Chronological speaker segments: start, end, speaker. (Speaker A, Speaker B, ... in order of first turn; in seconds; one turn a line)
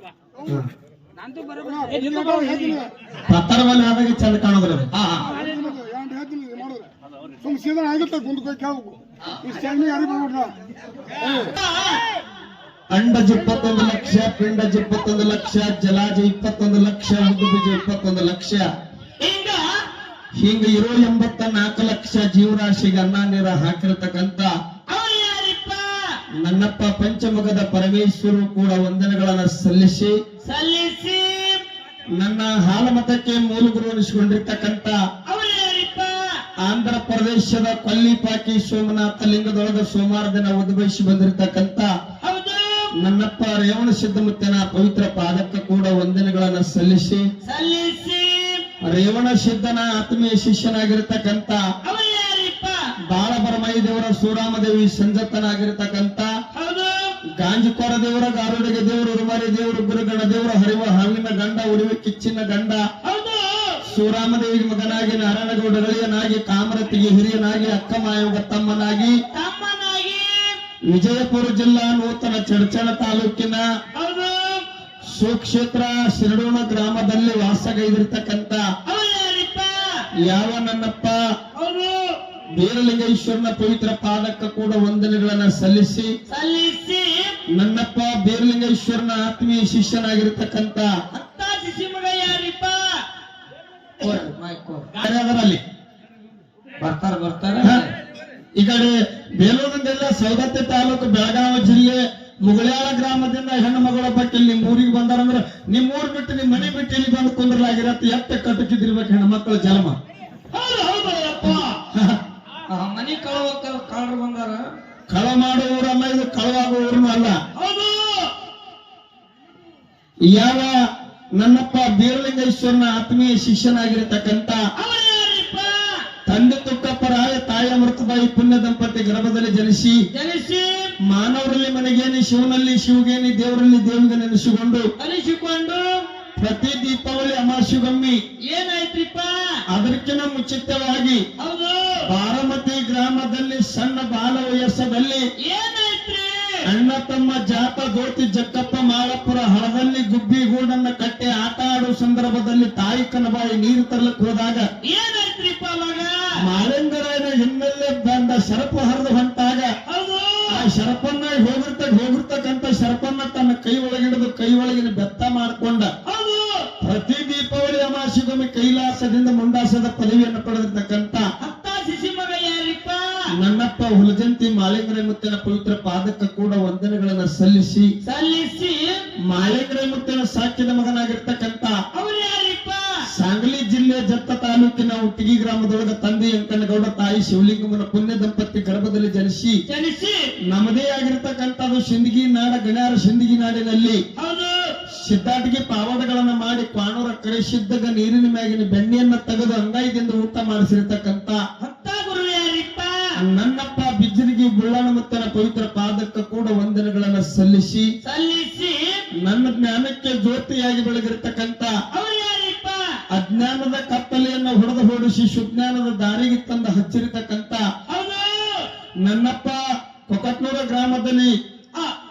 Speaker A: 1.9-2.8
Speaker B: 3.3-4.9
Speaker A: 5.0-5.5
Speaker C: 5.9-6.7
Speaker C: 7.5-8.7
Speaker C: 9.6-10.5
Speaker A: 11.5-12.0
Speaker B: 12.9-18.6
Speaker A: 19.2-19.8
Speaker B: 20.4-24.5
Speaker A: 24.9-26.1
Speaker B: 26.4-30.1
Speaker A: 30.4-31.6
Speaker B: 32.2-35.0
Speaker A: 35.3-36.2
Speaker B: 36.6-41.9
Speaker A: 42.2-42.9
Speaker B: 43.0-47.2
Speaker A: 47.4-48.6
Speaker B: 48.8-51.6
Speaker A: 51.8-52.9
Speaker B: 53.1-56.3
Speaker A: 56.5-57.1
Speaker B: 57.4-62.8
Speaker A: 63.0-63.8
Speaker B: 63.8-69.2
Speaker A: 69.3-70.6
Speaker B: 70.9-73.6
Speaker A: 73.9-74.6
Speaker B: 75.1-78.6
Speaker A: 78.8-79.9
Speaker B: 80.2-81.2
Speaker A: 81.5-82.1
Speaker B: 82.5-86.1
Speaker A: 86.3-87.4
Speaker B: 87.5-90.9
Speaker A: 91.1-92.9
Speaker A: 94.0-95.0
Speaker B: 95.0-95.6
Speaker A: 96.8-97.9
Speaker B: 98.6-110.0
Speaker A: 110.5-111.8
Speaker B: 111.9-112.2
Speaker A: 112.7-114.7
Speaker B: 115.1-117.4
Speaker A: 117.5-118.3
Speaker B: 120.3-120.7
Speaker B: 121.4-124.6
Speaker A: 124.8-126.0
Speaker B: 126.3-130.0
Speaker A: 130.1-130.9
Speaker B: 131.0-134.8
Speaker A: 135.0-136.0
Speaker B: 136.4-138.2
Speaker A: 138.4-139.4
Speaker B: 139.7-141.2
Speaker A: 141.4-142.1
Speaker B: 142.1-145.2
Speaker A: 145.4-146.6
Speaker B: 146.7-154.6
Speaker A: 154.8-156.3
Speaker B: 156.4-159.7
Speaker A: 159.9-160.7
Speaker B: 160.5-165.9
Speaker A: 166.1-166.7
Speaker B: 166.8-171.2
Speaker A: 171.4-173.2
Speaker B: 173.3-177.9
Speaker A: 178.0-179.0
Speaker B: 179.3-181.7
Speaker A: 181.9-182.9
Speaker B: 183.1-189.6
Speaker A: 189.7-190.3
Speaker B: 190.5-194.0
Speaker A: 194.2-194.7
Speaker B: 195.0-201.4
Speaker A: 201.6-203.1
Speaker B: 203.2-207.8
Speaker A: 208.0-209.0
Speaker B: 209.2-211.7
Speaker A: 211.9-212.9
Speaker B: 213.1-217.6
Speaker A: 217.9-218.7
Speaker B: 219.0-221.3